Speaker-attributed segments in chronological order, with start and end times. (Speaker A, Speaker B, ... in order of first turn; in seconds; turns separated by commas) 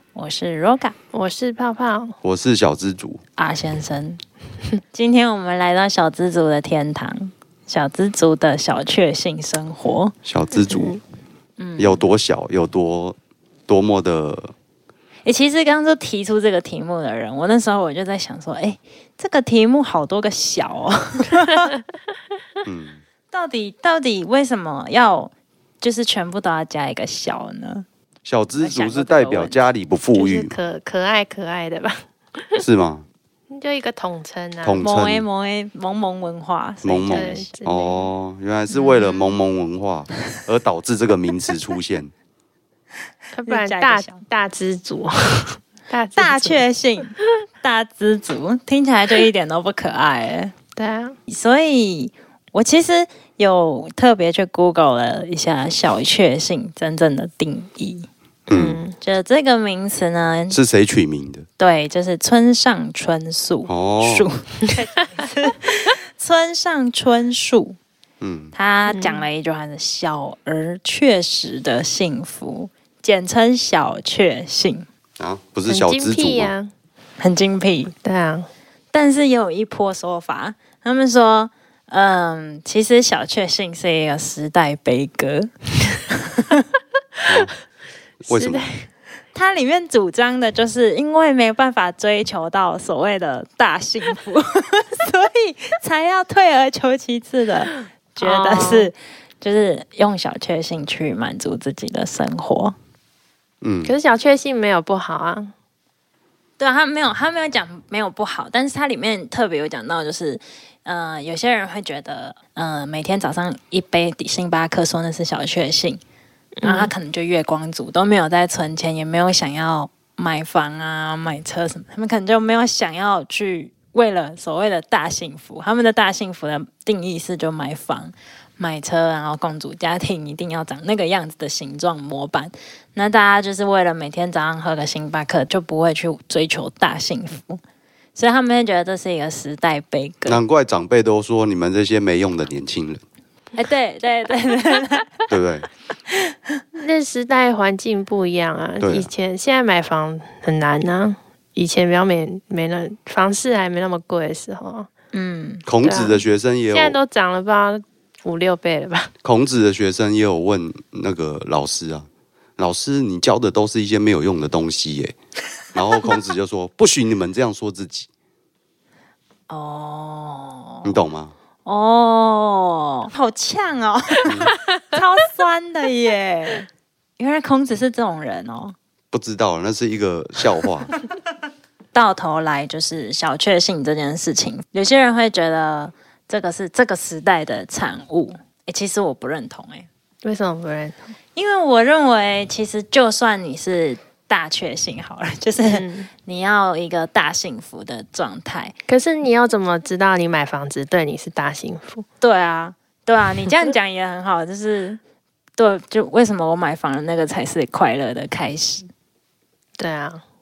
Speaker A: 0.1-0.9, Speaker B: 1.1-2.1, Speaker C: 2.2-3.2, Speaker A: 3.4-4.2, Speaker A: 4.9-10.1, Speaker C: 10.2-11.0, Speaker B: 10.6-11.0, Speaker A: 11.6-12.0, Speaker C: 11.8-13.2, Speaker C: 13.7-14.5, Speaker A: 15.2-21.7, Speaker C: 22.6-23.0, Speaker A: 23.3-27.9, Speaker C: 28.2-30.5, Speaker A: 28.6-29.5, Speaker B: 30.1-32.6, Speaker C: 32.6-33.0, Speaker B: 33.5-34.8, Speaker C: 34.6-35.2, Speaker A: 34.8-37.5, Speaker C: 36.8-42.1, Speaker B: 37.1-38.1, Speaker B: 38.8-39.2, Speaker B: 43.3-46.6, Speaker A: 43.5-44.2, Speaker A: 46.1-50.5, Speaker B: 50.8-51.1, Speaker A: 51.3-58.1, Speaker B: 58.5-59.0, Speaker C: 58.5-58.8, Speaker A: 59.0-60.6, Speaker C: 60.5-61.5, Speaker A: 61.6-67.8, Speaker C: 63.7-64.3, Speaker C: 68.2-68.5, Speaker A: 68.5-74.8, Speaker B: 68.9-69.2, Speaker C: 75.2-76.5, Speaker B: 75.7-76.7, Speaker A: 77.2-77.9, Speaker B: 78.0-78.5, Speaker A: 78.9-85.5, Speaker A: 86.1-86.6, Speaker C: 87.2-87.5, Speaker C: 88.2-88.6, Speaker B: 88.2-88.9, Speaker A: 89.3-102.7, Speaker B: 98.2-98.9, Speaker C: 103.6-103.9, Speaker B: 103.8-105.5, Speaker A: 106.6-116.0, Speaker B: 116.6-116.9, Speaker A: 116.6-137.6, Speaker A: 138.2-140.4, Speaker C: 140.2-143.0, Speaker A: 143.6-145.1, Speaker C: 145.3-145.7, Speaker A: 146.1-146.3, Speaker B: 146.8-154.9, Speaker C: 148.8-149.1, Speaker A: 155.1-155.6, Speaker C: 155.7-157.0, Speaker B: 155.8-156.2, Speaker B: 156.7-159.1, Speaker C: 159.2-165.2, Speaker C: 165.7-168.1, Speaker A: 169.5-170.9, Speaker C: 170.8-171.3, Speaker A: 171.6-178.8, Speaker C: 174.2-174.5, Speaker C: 179.1-180.9, Speaker A: 181.9-189.9, Speaker B: 190.2-191.0, Speaker A: 191.3-198.7, Speaker B: 195.7-196.1, Speaker B: 198.9-202.1, Speaker A: 202.2-205.0, Speaker A: 205.6-208.9, Speaker B: 209.8-210.2